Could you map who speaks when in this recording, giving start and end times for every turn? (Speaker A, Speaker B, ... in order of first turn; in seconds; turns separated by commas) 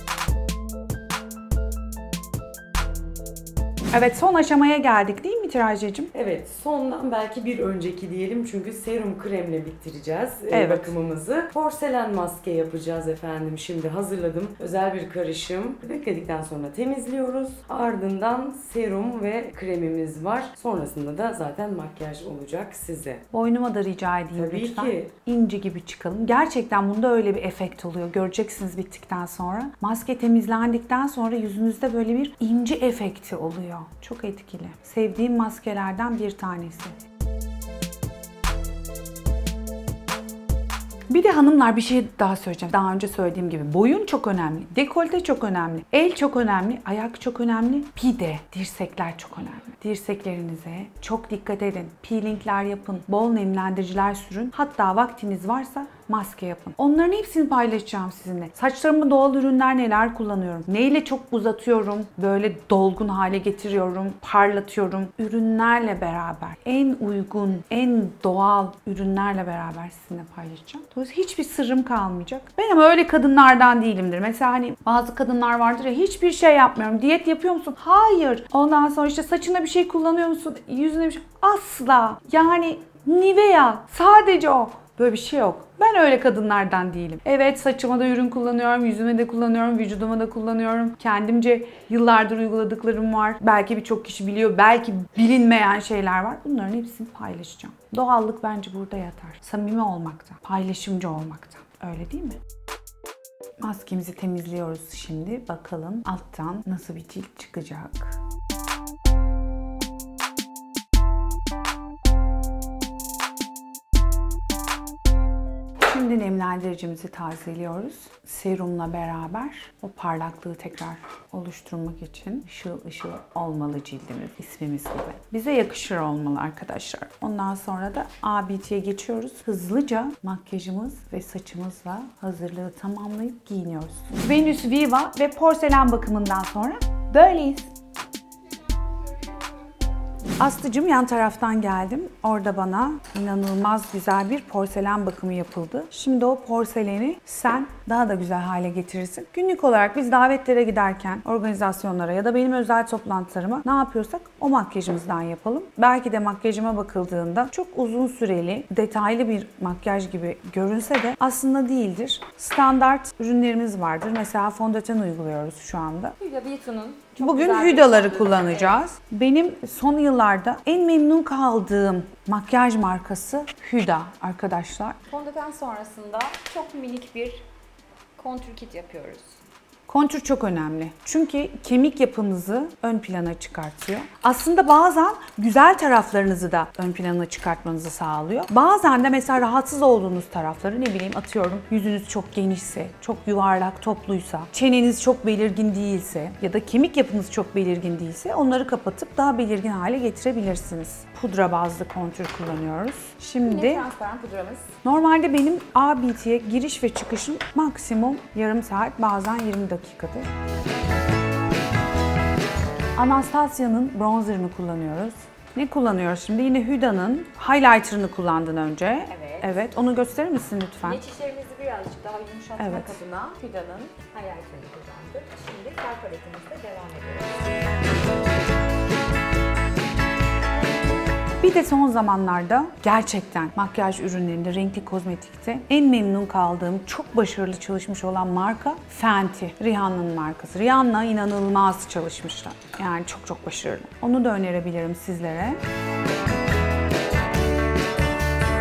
Speaker A: 3.9-6.1, Speaker B: 6.1-23.2, Speaker A: 10.5-10.9, Speaker A: 23.3-36.9, Speaker B: 24.4-25.1, Speaker A: 41.1-102.4, Speaker A: 103.6-108.2, Speaker A: 115.8-137.7, Speaker A: 140.4-166.2, Speaker C: 166.2-168.8, Speaker A: 167.2-175.0, Speaker C: 175.1-177.4, Speaker C: 178.2-179.4, Speaker A: 179.9-203.9, Speaker C: 203.4-204.7, Speaker A: 204.8-210.3, Speaker A: 212.9-221.0, Speaker C: 219.1-219.7, Speaker C: 220.8-227.5, Speaker A: 222.6-222.9, Speaker A: 231.4-245.6